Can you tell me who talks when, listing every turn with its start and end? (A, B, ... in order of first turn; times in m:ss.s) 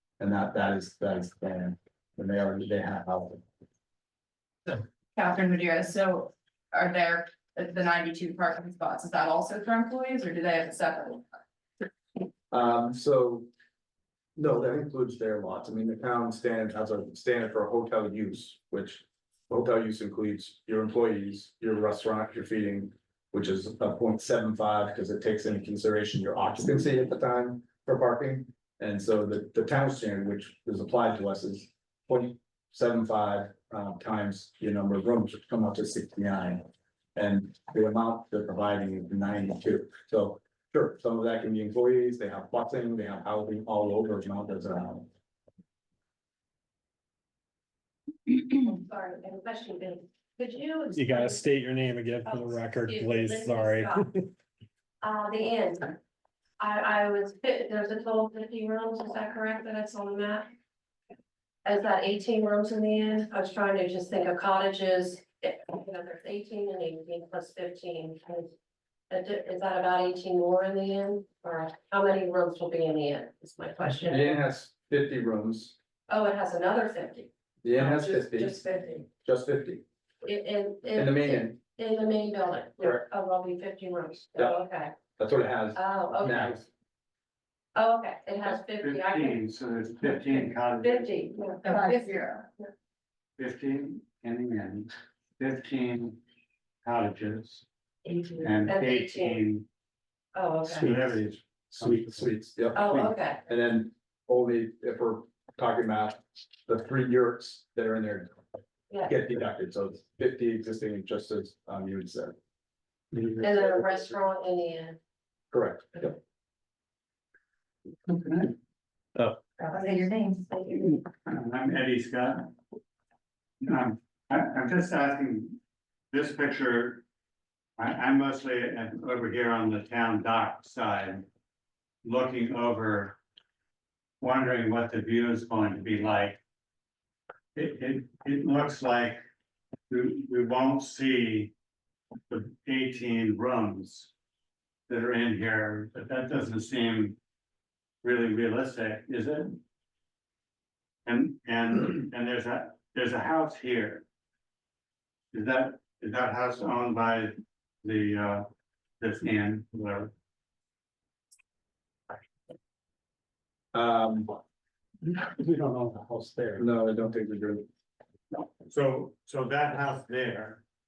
0:00.2-0:03.4 A
0:04.7-0:11.3 B
0:12.5-0:13.5 A
0:14.4-0:45.1 A
0:48.5-0:51.5 C
0:51.0-0:53.9 D
0:52.2-0:54.1 C
0:55.0-0:56.0 C
0:56.6-1:00.5 C
1:01.6-1:08.5 C
1:09.1-1:14.4 C
1:13.9-1:15.8 A
1:16.1-1:19.1 C
1:17.6-1:18.6 A
1:19.2-1:19.8 A
1:20.2-1:25.0 C
1:20.9-1:21.6 A
1:25.2-1:26.6 A
1:25.7-1:26.6 C
1:27.7-1:29.4 C
1:28.4-1:31.3 D
1:30.2-1:32.7 C
1:31.6-1:32.5 B
1:33.4-1:36.2 D
1:36.8-1:37.6 D
1:38.4-1:39.4 C
1:38.4-1:39.6 D
1:40.3-1:40.9 C
1:40.6-1:42.4 E
1:40.7-1:42.3 D
1:42.1-1:48.4 A
1:42.7-1:43.4 C
1:49.0-1:52.4 A
1:53.1-1:53.5 E
1:53.4-1:55.0 C
1:55.5-1:56.2 A
1:58.1-1:58.5 D
2:01.2-2:02.5 D
2:03.6-2:05.6 D
2:06.1-2:07.0 D
2:07.8-2:11.3 D
2:12.0-2:13.2 D
2:14.2-2:16.4 D
2:17.6-2:19.2 D
2:19.9-2:21.5 D
2:22.3-2:24.1 D
2:24.9-2:27.2 D
2:28.0-2:29.6 D
2:31.1-2:34.0 D
2:35.3-2:38.5 D
2:39.0-2:40.1 D
2:43.7-2:44.4 A
2:45.1-2:46.7 E
2:46.6-2:47.7 A
2:48.6-2:50.6 D